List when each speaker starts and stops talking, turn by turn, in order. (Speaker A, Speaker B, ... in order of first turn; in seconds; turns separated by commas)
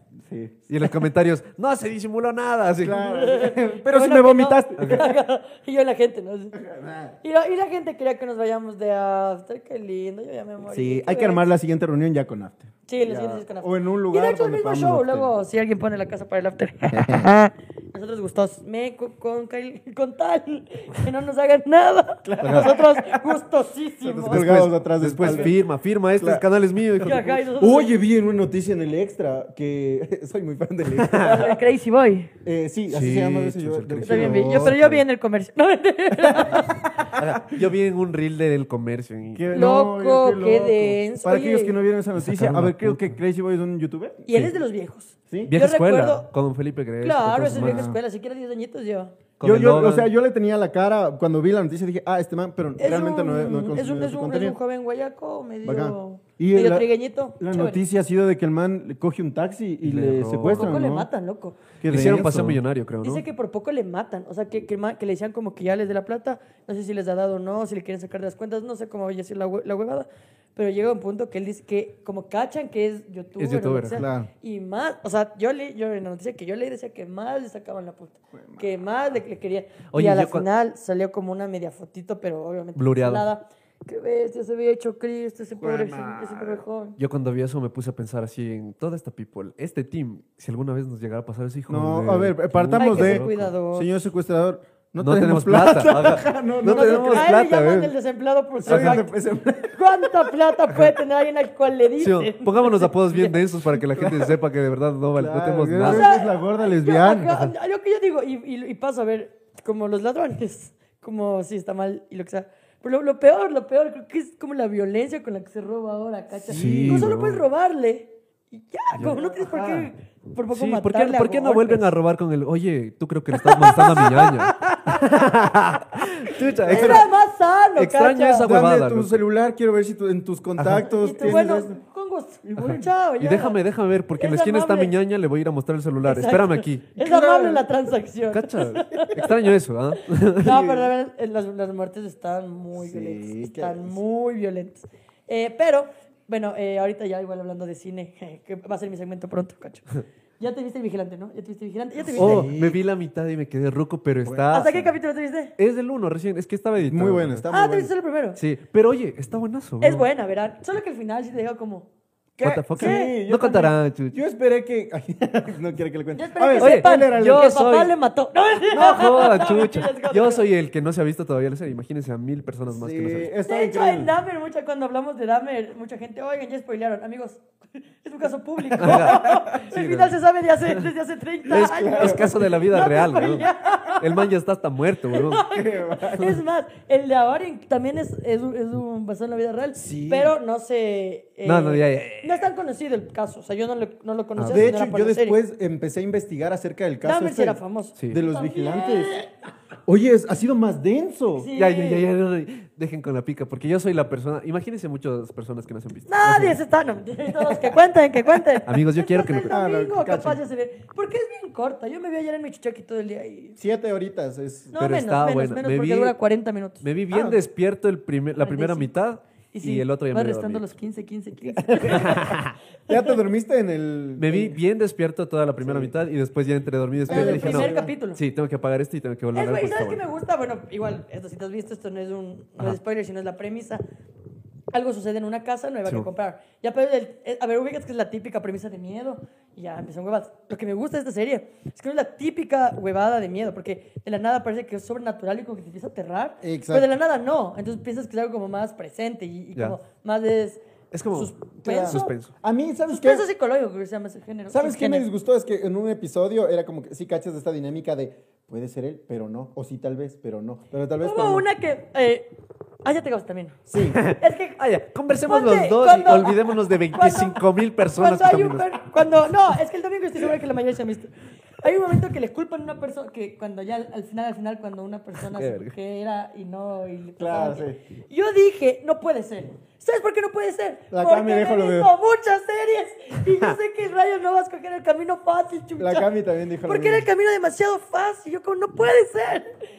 Speaker A: 0.2-0.6, Speaker B: 0.7-3.1, Speaker A: 2.8-5.1, Speaker C: 2.9-6.5, Speaker B: 4.8-5.1, Speaker A: 6.5-7.1, Speaker C: 7.2-11.5, Speaker A: 10.7-15.3, Speaker C: 12.9-24.5, Speaker A: 16.9-17.3, Speaker A: 22.2-23.3, Speaker B: 22.4-22.7, Speaker A: 24.0-25.6, Speaker B: 24.2-27.4, Speaker C: 25.2-25.5, Speaker A: 26.2-26.4, Speaker A: 27.0-31.6, Speaker C: 27.0-28.0, Speaker B: 31.0-31.5, Speaker C: 31.1-32.3, Speaker A: 32.4-34.8, Speaker B: 32.9-35.0, Speaker C: 34.0-37.0, Speaker A: 36.2-37.6, Speaker B: 37.1-39.5, Speaker A: 39.3-44.3, Speaker C: 39.5-41.8, Speaker B: 42.2-43.1, Speaker C: 44.2-46.3, Speaker B: 45.5-47.9, Speaker C: 47.0-49.1, Speaker A: 47.5-48.0, Speaker B: 49.4-50.1, Speaker A: 49.4-54.5, Speaker C: 52.8-57.8, Speaker A: 55.6-61.1, Speaker B: 59.8-60.7, Speaker C: 60.5-61.6, Speaker A: 61.8-62.6, Speaker B: 61.8-63.2, Speaker C: 63.0-87.0, Speaker B: 73.4-74.0, Speaker A: 73.8-74.3, Speaker A: 78.3-78.7, Speaker B: 79.9-80.5, Speaker B: 82.8-83.2, Speaker A: 85.6-86.6, Speaker B: 87.0-93.5, Speaker A: 91.7-97.4, Speaker C: 92.7-93.9, Speaker B: 95.0-97.9, Speaker C: 96.7-103.4, Speaker B: 98.7-99.0, Speaker A: 98.7-100.3, Speaker B: 102.0-106.1, Speaker A: 103.7-104.4, Speaker A: 105.1-107.5, Speaker C: 105.8-121.9, Speaker A: 116.4-117.2, Speaker B: 116.5-117.4, Speaker A: 119.0-119.9, Speaker B: 120.5-127.1, Speaker C: 123.4-125.0, Speaker A: 126.4-127.0, Speaker C: 126.7-128.5, Speaker B: 127.8-129.2, Speaker A: 128.4-131.8, Speaker B: 130.6-131.4, Speaker C: 130.8-133.6, Speaker A: 132.4-132.8, Speaker B: 132.6-136.9, Speaker C: 134.2-134.9, Speaker C: 136.0-139.4, Speaker A: 137.0-137.7, Speaker B: 138.3-140.6, Speaker C: 140.4-149.8, Speaker A: 140.4-140.9, Speaker A: 142.7-144.0, Speaker C: 150.4-152.5, Speaker A: 152.0-152.8, Speaker B: 152.2-154.9, Speaker A: 154.2-154.5, Speaker C: 154.5-155.5, Speaker B: 155.6-157.4, Speaker A: 156.8-157.9, Speaker C: 157.5-158.4, Speaker B: 158.3-160.1, Speaker C: 159.8-161.9, Speaker A: 162.4-167.7, Speaker C: 162.4-163.2, Speaker B: 162.4-164.2, Speaker C: 166.1-170.4, Speaker B: 166.6-167.9, Speaker B: 168.7-173.3, Speaker A: 172.7-174.1, Speaker C: 173.5-177.4, Speaker C: 178.0-184.3, Speaker B: 178.8-180.8, Speaker A: 178.8-179.4, Speaker A: 181.5-182.4, Speaker B: 181.5-185.5, Speaker C: 185.1-195.4, Speaker A: 185.4-186.4, Speaker A: 189.7-190.3, Speaker B: 191.4-192.4, Speaker B: 194.4-194.7, Speaker A: 194.5-199.1, Speaker C: 197.0-199.3, Speaker A: 199.8-201.5, Speaker C: 201.4-202.1, Speaker B: 201.5-206.6, Speaker C: 206.1-213.6, Speaker B: 208.7-209.6, Speaker A: 209.5-210.4, Speaker A: 213.6-214.7, Speaker C: 214.7-216.8, Speaker B: 214.8-216.2, Speaker B: 216.8-220.6, Speaker A: 217.1-217.4, Speaker C: 218.4-218.9, Speaker C: 219.5-222.3, Speaker A: 221.6-222.4, Speaker B: 221.8-222.5, Speaker C: 222.9-223.1, Speaker A: 222.9-224.6, Speaker B: 224.2-230.0, Speaker A: 225.6-225.9, Speaker A: 227.1-227.9, Speaker C: 227.1-228.2, Speaker C: 229.3-233.8, Speaker C: 234.7-250.6, Speaker A: 246.4-246.9, Speaker B: 250.9-252.3, Speaker C: 251.1-252.2, Speaker A: 251.6-253.2, Speaker C: 252.9-255.1, Speaker A: 254.5-261.4, Speaker C: 261.0-262.3, Speaker C: 262.8-264.6, Speaker A: 263.7-264.0, Speaker B: 263.9-268.8, Speaker C: 265.2-267.4, Speaker C: 267.9-286.1, Speaker B: 275.3-275.7, Speaker A: 277.2-277.8, Speaker A: 280.9-281.9, Speaker A: 285.8-287.1, Speaker C: 286.6-289.5